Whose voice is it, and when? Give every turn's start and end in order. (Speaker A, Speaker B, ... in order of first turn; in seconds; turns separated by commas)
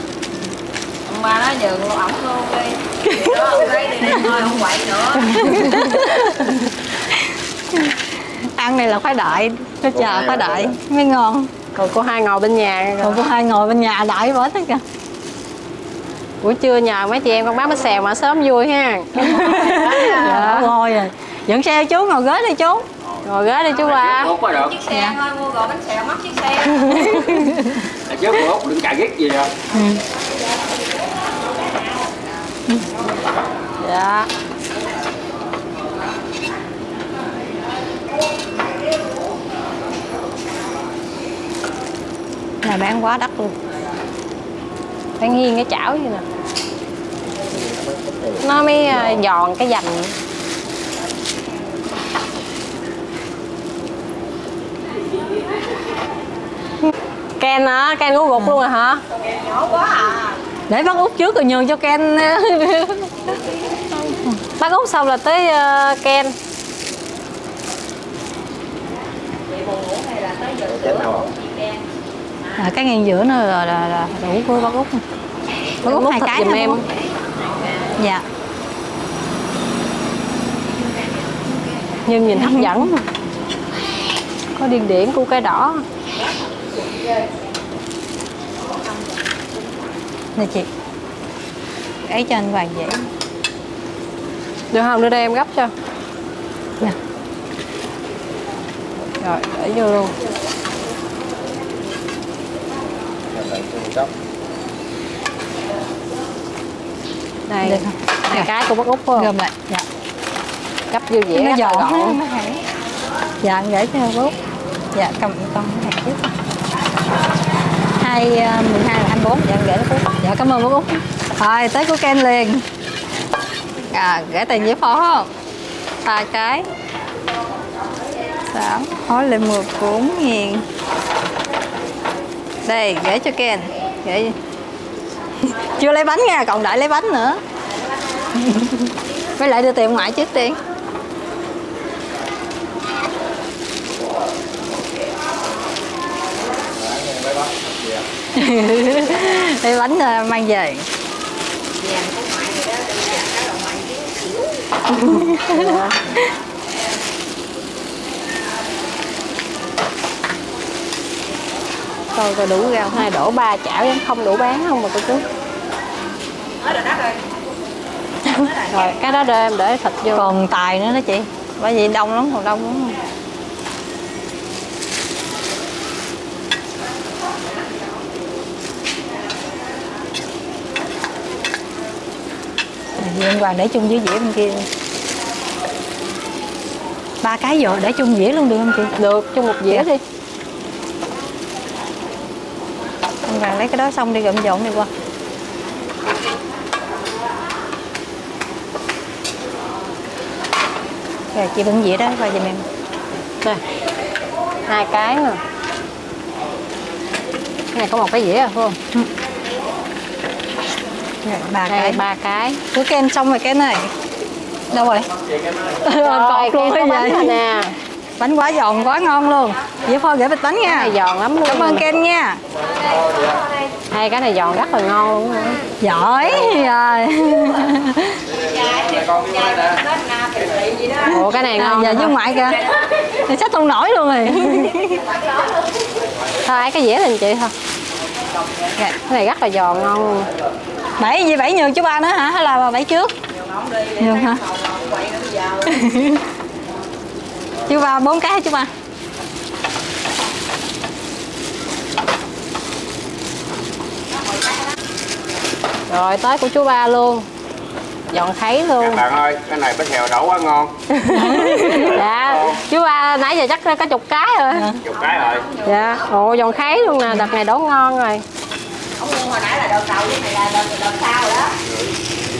Speaker A: 1.0-5.5, Speaker B: 3.1-3.5, Speaker B: 4.0-4.3, Speaker B: 5.2-11.5, Speaker C: 9.9-10.8, Speaker D: 11.7-13.2, Speaker B: 13.0-14.8, Speaker D: 16.4-20.7, Speaker B: 19.2-22.9, Speaker A: 19.7-20.3, Speaker E: 23.0-24.8, Speaker D: 23.2-24.3, Speaker A: 24.4-27.3, Speaker B: 24.9-25.2, Speaker B: 26.8-27.8, Speaker E: 28.1-29.5, Speaker B: 29.7-30.0, Speaker B: 32.7-32.9, Speaker D: 33.8-34.3, Speaker B: 42.6-43.5, Speaker D: 45.2-46.2, Speaker C: 47.5-49.2, Speaker D: 48.4-50.1, Speaker D: 57.4-59.0, Speaker A: 59.1-60.4, Speaker B: 60.7-63.2, Speaker B: 63.9-64.4, Speaker D: 64.6-66.3, Speaker A: 69.5-71.8, Speaker C: 70.7-71.3, Speaker B: 72.6-75.0, Speaker B: 75.8-76.8, Speaker D: 75.8-76.8, Speaker A: 77.3-77.9, Speaker B: 78.0-78.2, Speaker D: 82.0-82.9, Speaker B: 82.3-83.1, Speaker D: 84.6-85.8, Speaker B: 90.3-90.7, Speaker B: 92.0-93.1, Speaker D: 94.7-95.7, Speaker D: 99.2-100.1, Speaker C: 103.3-104.1, Speaker D: 107.5-109.3, Speaker B: 107.6-108.5, Speaker B: 109.2-109.8, Speaker D: 110.9-112.2, Speaker B: 111.3-112.6, Speaker B: 113.4-114.3, Speaker B: 114.9-116.3, Speaker B: 118.0-122.6, Speaker B: 123.9-125.3, Speaker B: 126.0-126.7, Speaker B: 128.5-130.6, Speaker B: 132.6-134.3, Speaker B: 135.4-137.4, Speaker B: 138.3-140.6, Speaker C: 146.7-148.1, Speaker B: 148.3-150.9, Speaker A: 151.8-154.6, Speaker B: 155.0-156.2, Speaker D: 155.2-156.0, Speaker D: 162.2-165.2, Speaker B: 162.4-163.1, Speaker A: 166.6-167.2, Speaker D: 168.7-170.3, Speaker B: 170.1-173.0, Speaker B: 183.0-184.7, Speaker B: 187.2-188.9, Speaker D: 189.0-190.0, Speaker B: 193.2-194.9, Speaker B: 201.3-202.6, Speaker D: 204.7-205.4, Speaker D: 207.7-208.8, Speaker B: 211.2-212.0, Speaker D: 211.7-212.6, Speaker B: 212.7-213.9, Speaker B: 214.7-215.1, Speaker B: 215.8-217.4, Speaker D: 215.9-217.7, Speaker B: 218.2-222.4, Speaker D: 220.6-221.8, Speaker A: 222.7-223.0, Speaker D: 223.9-225.7, Speaker B: 225.8-228.2, Speaker E: 228.4-229.8, Speaker A: 228.4-231.2, Speaker D: 231.0-232.2, Speaker B: 231.2-235.0, Speaker A: 232.4-232.8, Speaker A: 234.8-235.8, Speaker D: 236.4-237.5, Speaker A: 238.3-238.7, Speaker D: 239.1-240.3, Speaker B: 241.0-243.1, Speaker A: 243.3-245.8, Speaker B: 244.0-244.4, Speaker B: 245.7-246.2, Speaker B: 247.7-248.7, Speaker D: 255.9-257.3, Speaker D: 258.1-259.0, Speaker E: 258.8-260.7, Speaker D: 260.9-264.7, Speaker B: 261.1-262.0, Speaker E: 261.6-262.6, Speaker B: 264.5-264.8, Speaker E: 264.8-265.5, Speaker A: 265.0-266.1, Speaker D: 265.6-268.2, Speaker A: 268.9-271.5, Speaker E: 271.6-271.9